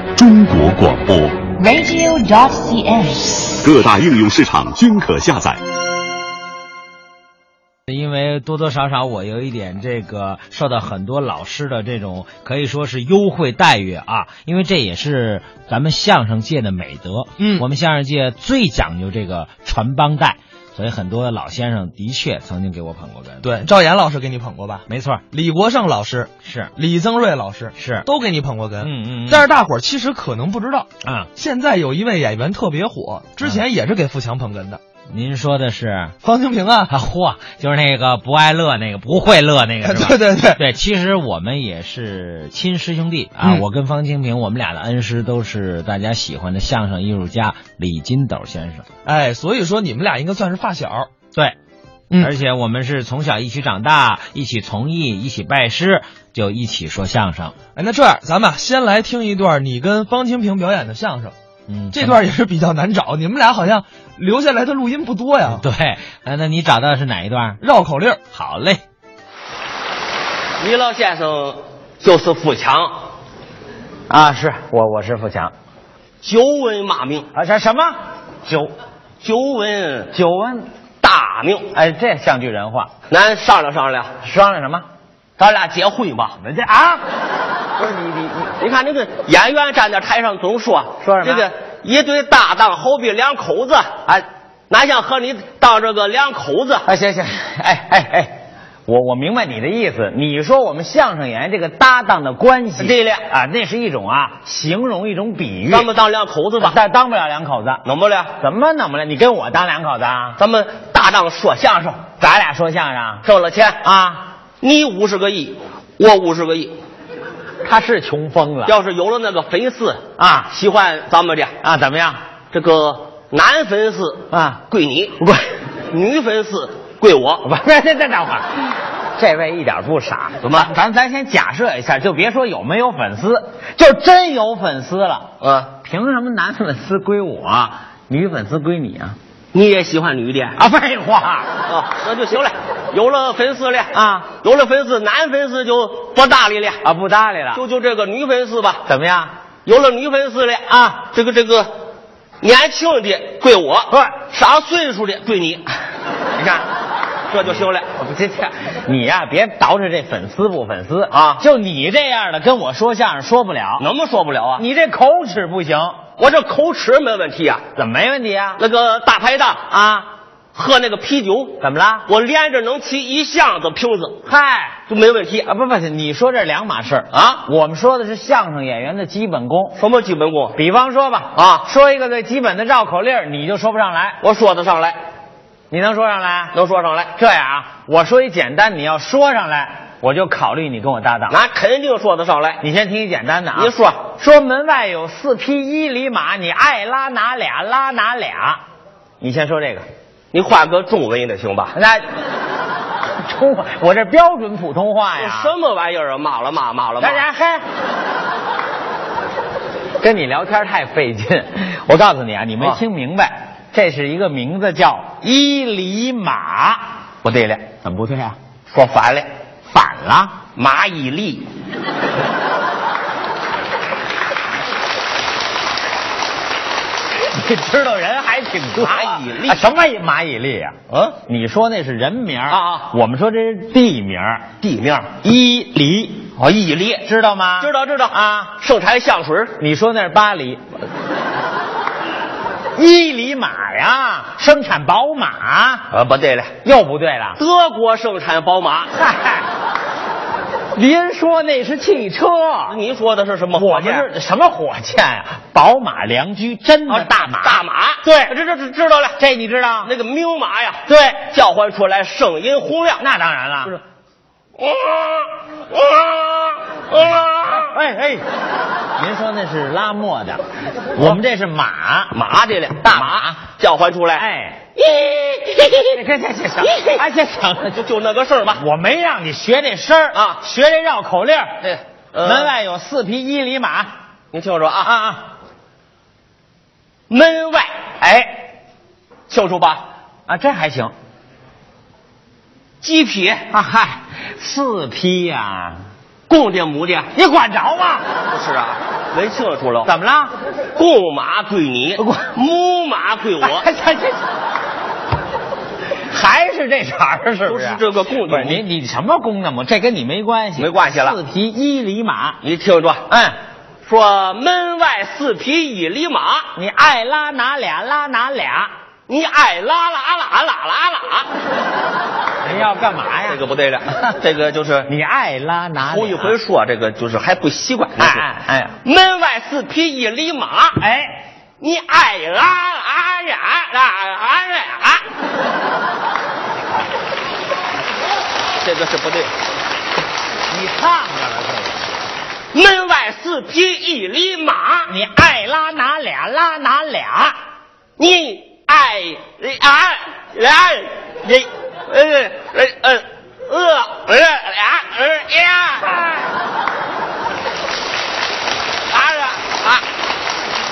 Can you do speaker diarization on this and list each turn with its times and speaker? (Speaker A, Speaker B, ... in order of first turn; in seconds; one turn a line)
Speaker A: 0.1-1.4
Speaker B: 1.6-3.5
Speaker A: 3.6-5.6
Speaker C: 7.9-23.5
Speaker D: 17.4-17.6
Speaker D: 23.4-34.8
Speaker C: 24.9-25.2
Speaker C: 26.4-26.7
Speaker C: 27.7-28.1
Speaker C: 28.8-29.5
Speaker C: 31.0-31.3
Speaker C: 35.1-36.1
Speaker D: 36.2-36.9
Speaker C: 36.9-48.9
Speaker D: 39.8-40.6
Speaker D: 49.0-51.1
Speaker C: 52.2-57.5
Speaker D: 57.8-61.3
Speaker C: 61.7-62.2
Speaker D: 61.9-65.6
Speaker C: 65.5-67.6
Speaker D: 67.6-68.2
Speaker C: 68.3-68.8
Speaker E: 70.6-73.0
Speaker F: 74.1-75.5
Speaker E: 76.2-77.3
Speaker F: 77.3-78.7
Speaker E: 79.2-80.1
Speaker F: 80.1-80.6
Speaker E: 81.0-81.7
Speaker F: 81.7-82.9
Speaker E: 83.1-84.1
Speaker F: 84.2-84.8
Speaker E: 85.4-86.4
Speaker F: 86.4-87.0
Speaker F: 87.8-88.5
Speaker E: 88.5-96.9
Speaker F: 91.0-91.5
Speaker F: 96.8-98.3
Speaker F: 98.9-105.9
Speaker E: 102.8-103.2
Speaker E: 105.7-106.8
Speaker F: 106.6-107.8
Speaker E: 107.8-108.3
Speaker F: 108.4-110.4
Speaker E: 110.4-112.0
Speaker F: 112.2-113.2
Speaker E: 113.2-113.8
Speaker F: 113.8-114.3
Speaker E: 114.6-116.8
Speaker F: 117.6-118.7
Speaker E: 118.7-121.5
Speaker F: 120.2-120.5
Speaker F: 121.6-122.2
Speaker E: 122.5-125.2
Speaker F: 124.3-124.6
Speaker E: 125.9-127.5
Speaker F: 127.4-135.3
Speaker E: 130.4-130.7
Speaker E: 135.4-135.7
Speaker F: 135.8-139.2
Speaker E: 139.5-140.6
Speaker F: 140.6-141.5
Speaker E: 141.7-146.8
Speaker F: 143.9-144.3
Speaker F: 146.8-147.6
Speaker E: 147.5-148.8
Speaker F: 148.8-149.3
Speaker E: 149.7-151.7
Speaker F: 150.7-151.1
Speaker E: 152.4-155.7
Speaker F: 153.9-154.2
Speaker E: 156.4-156.6
Speaker E: 157.3-157.9
Speaker F: 157.4-163.8
Speaker E: 161.1-161.4
Speaker E: 163.8-164.6
Speaker F: 164.6-166.0
Speaker E: 166.2-167.6
Speaker F: 167.8-168.6
Speaker E: 168.6-169.7
Speaker F: 169.7-170.1
Speaker E: 170.5-174.2
Speaker F: 171.6-172.1
Speaker F: 174.2-174.8
Speaker E: 174.9-175.5
Speaker F: 175.4-179.8
Speaker E: 177.1-177.4
Speaker E: 179.7-180.6
Speaker F: 180.5-184.2
Speaker E: 181.3-181.7
Speaker E: 184.2-185.0
Speaker F: 185.7-186.5
Speaker E: 186.5-187.1
Speaker F: 187.1-191.3
Speaker E: 191.3-192.6
Speaker F: 192.6-198.6
Speaker E: 193.6-194.0
Speaker F: 199.2-199.8
Speaker E: 200.3-201.7
Speaker F: 201.7-202.1
Speaker F: 203.2-205.5
Speaker E: 205.2-207.2
Speaker F: 207.0-207.6
Speaker F: 210.0-216.8
Speaker E: 217.2-217.7
Speaker F: 217.8-218.4
Speaker E: 218.7-219.3
Speaker F: 219.7-220.3
Speaker E: 220.6-221.5
Speaker F: 227.3-230.7
Speaker E: 228.8-229.7
Speaker E: 230.9-231.2
Speaker F: 231.2-234.5
Speaker E: 232.5-232.8
Speaker E: 234.6-235.1
Speaker F: 235.2-236.3
Speaker E: 236.3-237.1
Speaker F: 237.0-238.6
Speaker E: 237.6-239.6
Speaker F: 239.6-240.7
Speaker F: 242.7-245.9
Speaker E: 245.9-246.5
Speaker F: 246.6-247.4
Speaker E: 247.4-248.9
Speaker F: 249.0-249.4
Speaker F: 250.7-252.8
Speaker E: 252.7-254.1
Speaker F: 253.5-258.3
Speaker E: 256.9-259.2
Speaker F: 259.2-259.9
Speaker E: 259.8-263.0
Speaker F: 260.9-261.2
Speaker F: 263.0-263.8
Speaker E: 264.6-267.7
Speaker F: 267.5-268.2
Speaker F: 269.0-270.4
Speaker F: 270.9-272.1
Speaker E: 272.1-274.2
Speaker F: 272.8-273.4
Speaker F: 274.1-274.6
Speaker E: 274.8-276.0
Speaker F: 275.9-277.8
Speaker E: 276.7-277.0
Speaker E: 277.7-278.6
Speaker F: 278.6-281.6
Speaker E: 280.1-280.4
Speaker E: 281.6-282.5
Speaker F: 282.2-283.9
Speaker E: 284.3-284.9
Speaker F: 284.8-285.2
Speaker E: 287.1-287.7
Speaker F: 288.0-288.4
Speaker E: 289.3-289.8
Speaker F: 290.3-290.9
Speaker E: 292.8-293.4
Speaker F: 293.5-295.8
Speaker E: 296.3-297.1
Speaker F: 297.1-298.1
Speaker E: 298.3-299.9
Speaker F: 299.8-300.3
Speaker E: 300.7-303.6
Speaker F: 302.0-302.3
Speaker F: 303.4-304.3
Speaker F: 306.1-312.4
Speaker E: 307.4-308.6
Speaker E: 310.6-311.2
Speaker E: 312.4-313.0
Speaker F: 313.1-313.4
Speaker E: 313.8-316.5
Speaker F: 316.5-318.7
Speaker E: 319.1-321.3
Speaker F: 322.4-323.4
Speaker E: 323.3-324.9
Speaker F: 324.9-326.3
Speaker E: 325.8-328.3
Speaker F: 328.0-328.7
Speaker E: 328.8-330.8
Speaker F: 330.8-331.2
Speaker E: 331.6-335.1
Speaker E: 338.6-339.3
Speaker F: 340.5-341.8
Speaker E: 342.5-344.9
Speaker F: 344.9-347.4
Speaker E: 348.0-356.3
Speaker E: 358.9-359.8